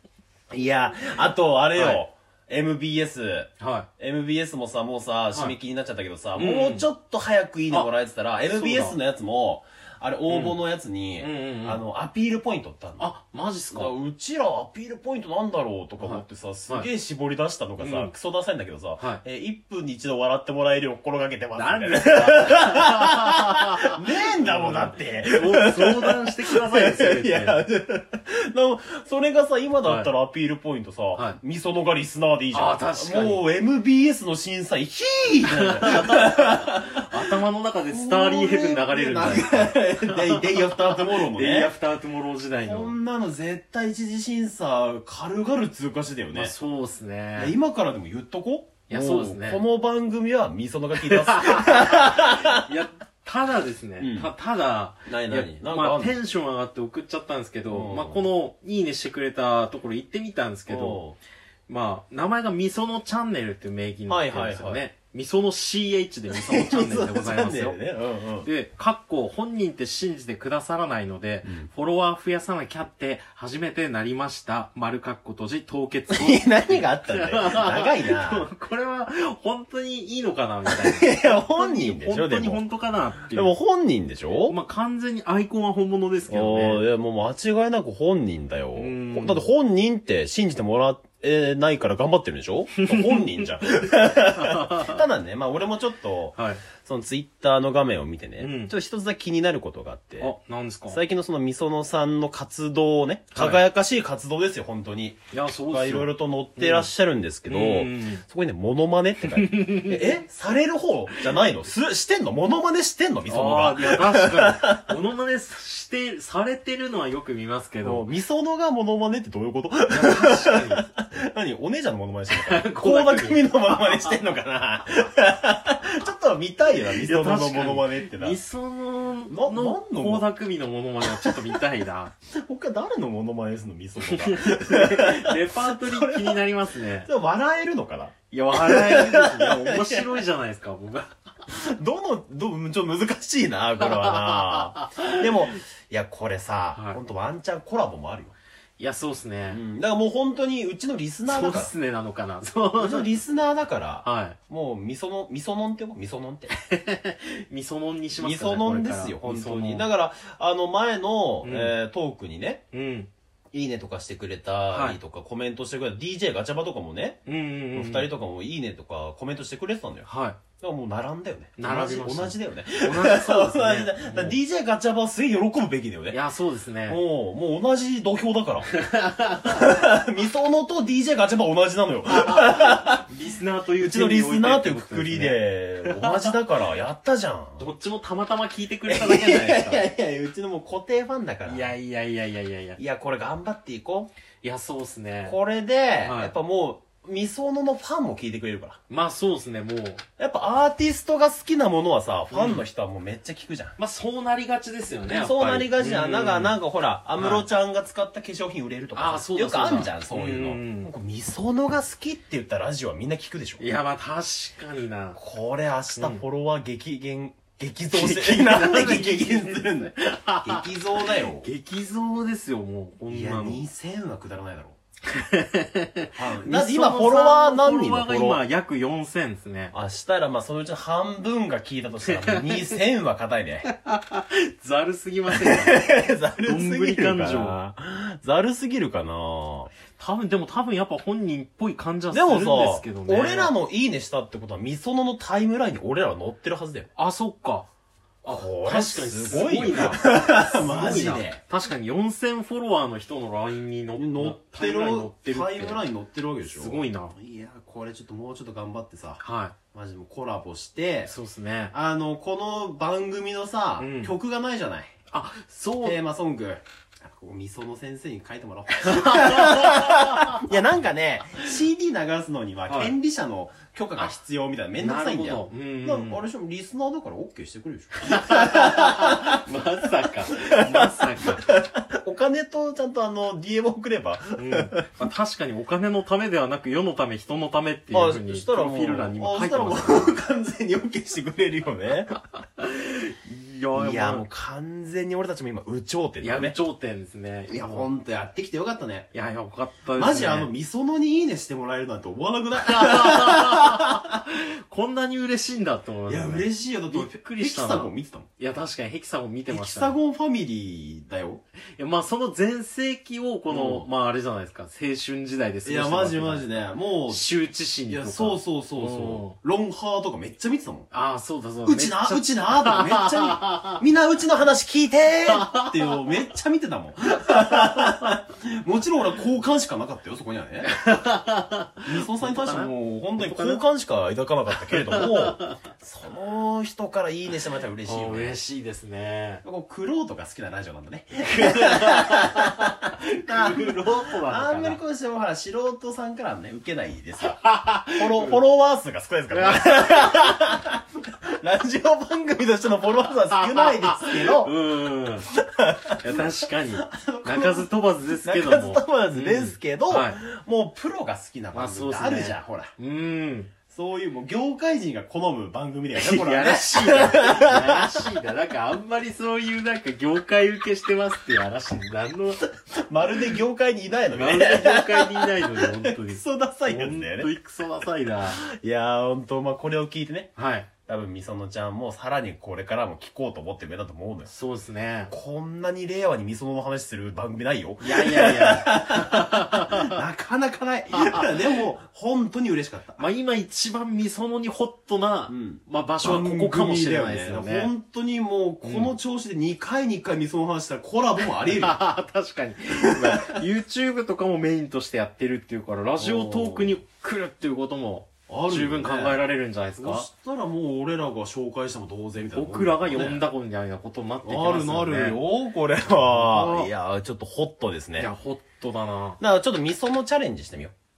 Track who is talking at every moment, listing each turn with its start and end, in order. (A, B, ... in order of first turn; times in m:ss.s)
0:00.5-0:13.1 A
0:01.7-0:02.0 B
0:03.6-0:03.9 B
0:06.4-0:06.8 B
0:08.5-0:09.0 B
0:10.3-0:10.6 B
0:11.2-0:11.8 B
0:13.0-0:13.9 B
0:13.7-0:37.0 A
0:16.0-0:16.9 B
0:17.8-0:18.1 B
0:21.5-0:27.6 B
0:29.8-0:30.1 B
0:32.5-0:33.4 B
0:35.4-0:43.0 B
0:37.9-0:41.7 A
0:42.6-0:46.5 A
0:46.3-0:47.5 B
0:47.4-0:52.6 A
0:48.9-0:49.6 B
0:51.0-1:01.0 B
0:54.0-0:54.3 A
0:55.0-0:56.2 A
0:57.7-0:58.2 A
1:00.7-1:01.2 A
1:01.7-1:07.8 B
1:04.1-1:04.8 A
1:06.3-1:08.5 A
1:08.4-1:23.5 B
1:16.1-1:18.5 A
1:20.7-1:22.6 A
1:23.3-1:24.6 A
1:24.4-1:26.8 B
1:26.3-1:40.3 A
1:28.7-1:29.4 B
1:32.8-1:33.4 B
1:34.4-1:35.0 B
1:36.4-1:36.6 B
1:38.4-1:38.7 B
1:40.2-1:41.0 B
1:40.9-1:54.9 A
1:43.3-1:43.6 B
1:45.3-1:46.9 B
1:47.5-1:48.2 B
1:49.2-1:50.2 B
1:53.3-1:58.1 B
1:57.8-2:08.4 A
1:59.9-2:00.8 B
2:02.3-2:04.2 B
2:06.7-2:12.1 B
2:09.3-2:10.3 A
2:11.0-2:11.6 A
2:12.3-2:16.4 A
2:14.0-2:17.1 B
2:17.0-2:20.0 A
2:18.3-2:21.2 B
2:21.4-2:28.4 A
2:23.8-2:25.2 B
2:26.7-2:27.0 B
2:28.8-2:29.6 B
2:29.5-2:31.7 A
2:31.3-2:33.1 B
2:32.8-2:36.5 A
2:34.0-2:34.4 B
2:36.5-2:39.9 B
2:38.2-2:42.6 A
2:41.4-2:41.7 B
2:42.7-2:43.1 B
2:43.5-2:47.2 A
2:44.7-2:45.0 B
2:47.2-2:48.1 B
2:47.7-2:50.1 A
2:50.0-2:50.4 B
2:50.6-2:56.2 A
2:51.6-2:54.4 B
2:56.1-2:57.0 B
2:56.9-2:58.8 A
2:58.7-2:59.7 B
2:59.4-3:03.0 A
3:02.1-3:06.3 B
3:03.8-3:07.6 A
3:07.6-3:09.8 B
3:08.9-3:11.7 A
3:11.4-3:12.8 B
3:12.8-3:14.1 A
3:14.4-3:15.4 B
3:15.2-3:18.8 A
3:16.0-3:16.3 B
3:18.9-3:20.0 B
3:20.2-3:23.8 A
3:22.3-3:22.6 B
3:23.8-3:26.6 B
3:25.1-3:33.6 A
3:27.1-3:27.4 B
3:28.9-3:30.9 B
3:33.6-3:35.2 B
3:35.2-3:41.5 A
3:36.0-3:36.2 B
3:37.9-3:43.6 B
3:43.1-3:44.8 A
3:45.1-3:49.7 B
3:46.1-3:48.4 A
3:49.7-3:53.7 A
3:52.0-3:52.8 B
3:53.6-3:55.8 B
3:55.3-3:59.7 A
3:56.4-3:57.5 B
4:00.0-4:03.5 B
4:02.1-4:06.9 A
4:07.0-4:07.7 B
4:08.2-4:15.8 B
4:08.2-4:11.4 A
4:14.0-4:19.2 A
4:16.5-4:17.2 B
4:19.2-4:19.5 B
4:19.7-4:21.1 A
4:21.0-4:21.7 B
4:21.7-4:24.9 A
4:23.8-4:24.1 B
4:25.1-4:26.0 B
4:25.8-4:39.4 A
4:28.8-4:30.4 B
4:32.7-4:32.9 B
4:34.8-4:36.2 B
4:38.0-4:41.4 B
4:40.3-4:44.8 A
4:44.4-4:50.2 B
4:47.9-4:52.2 A
4:52.1-4:54.2 B
4:53.7-4:56.6 A
4:56.2-4:57.9 B
4:57.5-4:59.1 A
4:59.1-5:00.5 B
4:59.9-5:04.0 A
5:02.6-5:09.9 B
5:06.1-5:08.3 A
5:09.5-5:11.4 A
5:11.8-5:16.4 B
5:13.5-5:13.8 A
5:15.6-5:17.3 A
5:17.1-5:19.4 B
5:17.9-5:20.9 A
5:20.9-5:23.8 B
5:21.6-5:30.7 A
5:25.3-5:26.0 B
5:30.6-5:33.6 B
5:31.8-5:38.4 A
5:34.7-5:35.6 B
5:37.8-5:39.4 B
5:39.4-5:47.4 A
5:41.2-5:44.8 B
5:47.2-5:48.4 B
5:47.9-5:54.5 A
5:49.3-5:50.4 B
5:53.0-5:55.3 B
5:55.4-5:56.0 A
5:56.0-6:00.2 B
5:56.8-5:57.7 A
5:58.2-6:02.7 A
6:01.5-6:03.5 B
6:03.7-6:08.0 A
6:05.9-6:12.5 B
6:12.8-6:17.3 A
6:14.1-6:18.4 B
6:18.2-6:20.3 A
6:20.4-6:20.7 B
6:20.8-6:24.3 A
6:24.3-6:25.1 B
6:25.1-6:33.0 A
6:27.8-6:30.0 B
6:30.9-6:31.5 B
6:33.0-6:37.7 B
6:35.3-6:41.8 A
6:38.6-6:38.9 B
6:41.2-6:50.0 B
6:46.0-6:46.8 A
6:48.3-6:49.2 A
6:49.8-6:53.2 A
6:52.3-6:55.2 B
6:54.2-6:58.1 A
6:55.9-6:56.7 B
6:58.0-6:59.2 B
6:59.2-7:00.7 A